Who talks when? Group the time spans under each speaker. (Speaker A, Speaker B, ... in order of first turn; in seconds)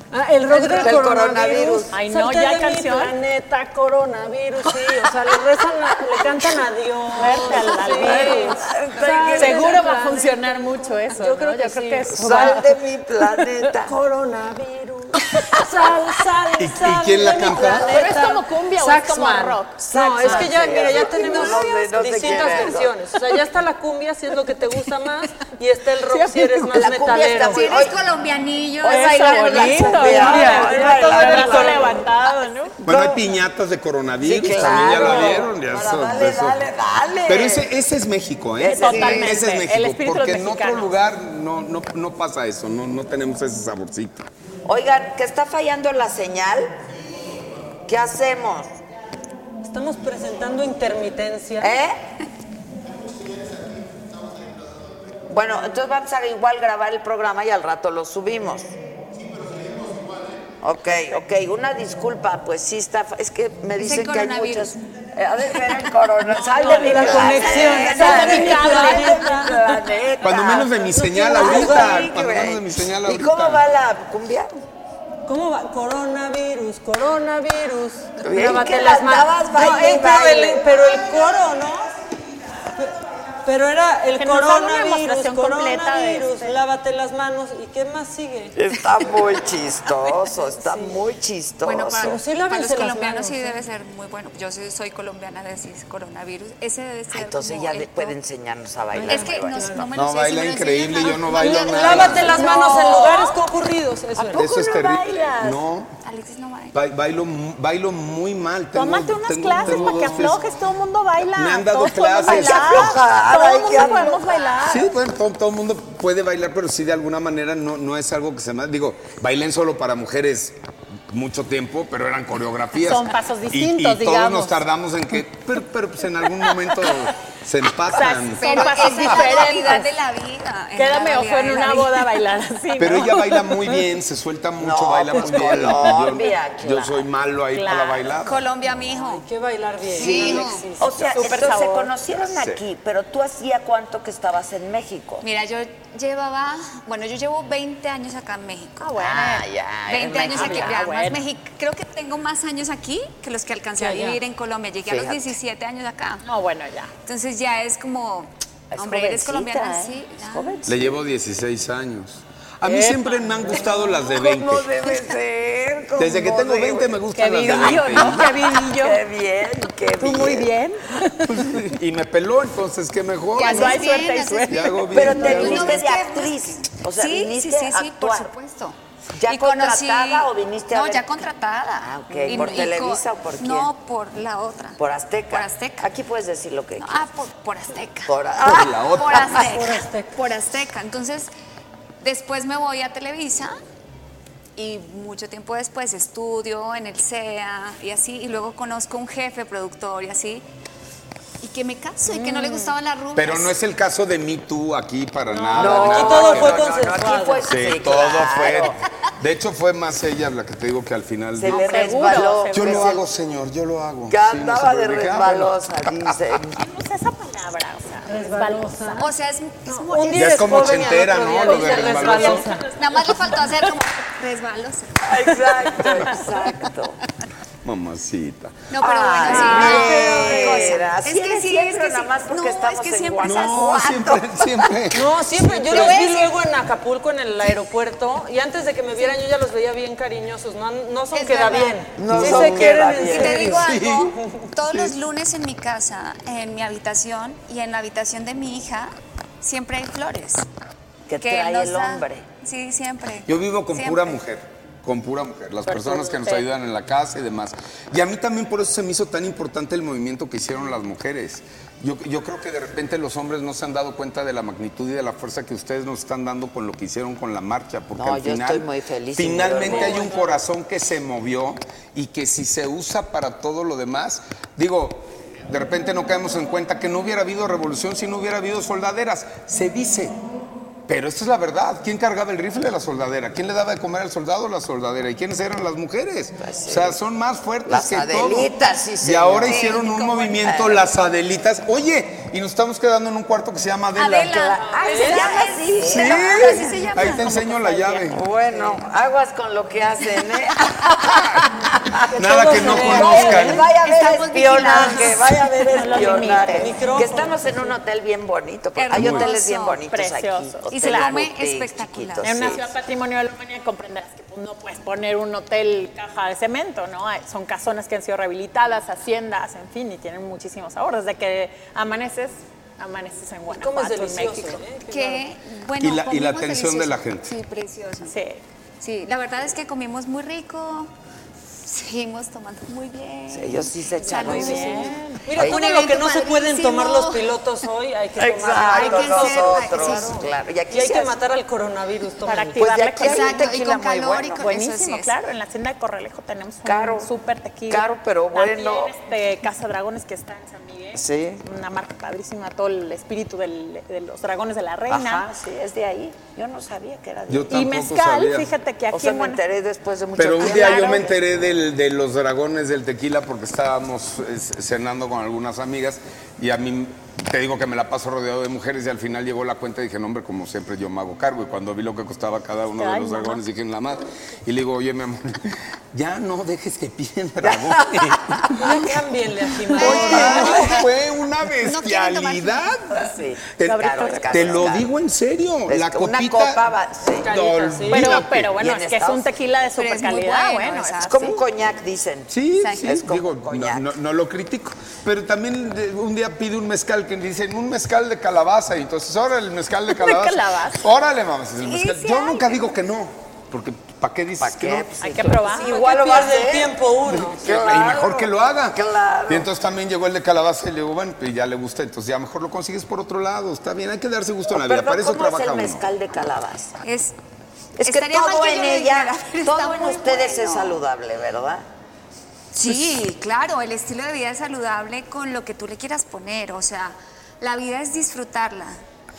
Speaker A: 0.1-12.6, 13.8-27.7, 29.6-32.0, 49.6-51.7, 66.5-69.6, 70.8-72.1, 75.3-81.9, 83.5-88.5, 90.6-91.0, 92.0-93.6, 99.1-99.8, 101.4-104.5, 138.9-141.5, 153.8-154.2, 189.3-190.2, 205.5-207.5, 218.1-219.1, 219.7-222.7, 229.2-230.8, 234.9-243.7, 269.6-270.2, 294.9-295.3, 302.1-303.7, 304.6-307.7, 323.5-325.2, 334.1-342.7, 378.6-380.8, 387.2-388.1, 405.6-408.0
Speaker B: 0.5-1.0, 1.9-3.1, 7.2-8.6, 9.2-12.7, 17.8-20.5, 21.1-21.6, 26.1-26.8, 28.9-32.7, 38.6-40.9, 66.5-69.5, 84.2-86.5, 102.4-103.3, 108.7-114.9, 122.8-124.6, 127.9-129.9, 130.8-133.8, 137.5-138.1, 141.2-141.9, 148.8-149.4, 150.3-151.2, 156.2-156.9, 167.2-169.0, 170.0-171.3, 173.4-174.8, 202.1-202.7, 205.3-205.8, 211.5-213.0, 216.5-219.0, 222.1-222.7, 255.7-256.4, 305.7-306.7, 309.9-311.1, 312.2-324.6, 328.1-328.4, 334.1-335.2, 342.2-343.5, 344.4-355.2, 357.5-359.4, 372.8-373.4, 383.6-384.6, 387.9-391.4, 399.9-400.8, 405.0-405.8
Speaker C: 0.8-1.9, 6.1-6.5, 7.3-9.9, 12.1-13.9, 19.9-23.0, 26.7-28.0, 28.8-32.0, 32.8-33.2, 34.2-37.7, 38.6-39.4, 44.7-46.7, 47.9-48.7, 51.6-52.0, 55.3-58.7, 60.6-74.5, 78.2-80.7, 88.5-92.2, 97.1-99.9, 104.2-105.6, 112.2-114.5, 134.6-137.1, 139.9-145.2, 149.0-150.8, 154.9-155.3, 158.7-161.0, 163.7-170.5, 174.9-178.3, 179.2-181.2, 181.8-183.7, 184.8-186.9, 188.1-189.4, 205.6-208.8, 211.4-213.0, 214.1-216.5, 225.1-227.0, 228.8-234.7, 242.0-243.6, 251.1-252.2, 267.9-270.2, 286.4-287.0, 287.7-289.8, 290.4-290.8, 294.4-297.1, 298.1-312.6, 333.3-335.6, 338.2-341.2, 342.6-344.4, 346.6-347.1, 347.7-348.9, 350.9-351.4, 354.9-357.6, 358.9-361.2, 377.4-378.9, 379.7-380.7, 382.9-384.9, 385.7-387.3, 388.5-389.3, 391.1-392.3, 392.8-393.9, 404.4-406.8, 407.4-409.5, 414.5-416.8, 417.8-421.6, 422.6-423.0
Speaker D: 16.6-18.0, 32.9-36.6, 37.3-44.3, 70.2-73.6, 100.0-102.4, 104.3-106.0, 106.7-110.4, 111.2-113.0, 114.6-120.6, 121.1-129.4, 132.8-138.4, 142.2-142.6, 160.7-164.7, 166.0-168.3, 171.3-175.8, 188.4-189.4, 203.2-206.9, 207.5-216.4, 220.1-222.5, 227.6-228.7, 233.2-235.1, 242.1-242.9, 243.5-244.2, 244.7-244.9, 253.3-280.2, 280.9-294.6, 295.8-298.2, 302.1-303.7, 308.9-309.3, 325.8-327.3, 357.3-358.5, 360.2-378.7, 379.8-386.7, 387.3-388.5, 392.3-405.0, 407.1-415.9
Speaker E: 27.5-30.3, 63.8-64.8, 67.9-68.3, 91.6-98.2, 99.0-103.2, 106.0-106.8, 128.4-132.2, 138.2-139.2, 140.0-140.6, 145.2-156.2, 157.1-160.6, 173.4-185.9, 186.8-191.3, 192.0-193.6, 194.6-200.4, 201.4-203.6, 219.0-220.8, 221.7-225.0, 228.7-234.1, 235.4-236.3, 241.1-241.8, 242.9-250.5, 251.2-254.2, 289.4-290.6, 294.0-298.1, 303.1-305.3, 308.8-309.8, 310.7-312.6, 324.9-328.2, 328.8-330.9, 331.6-337.3, 338.6-340.1, 343.0-345.1, 379.8-380.8, 381.6-382.8, 389.8-391.4, 392.6-392.9, 401.6-402.6, 416.8-417.1, 417.8-420.8, 422.5-428.8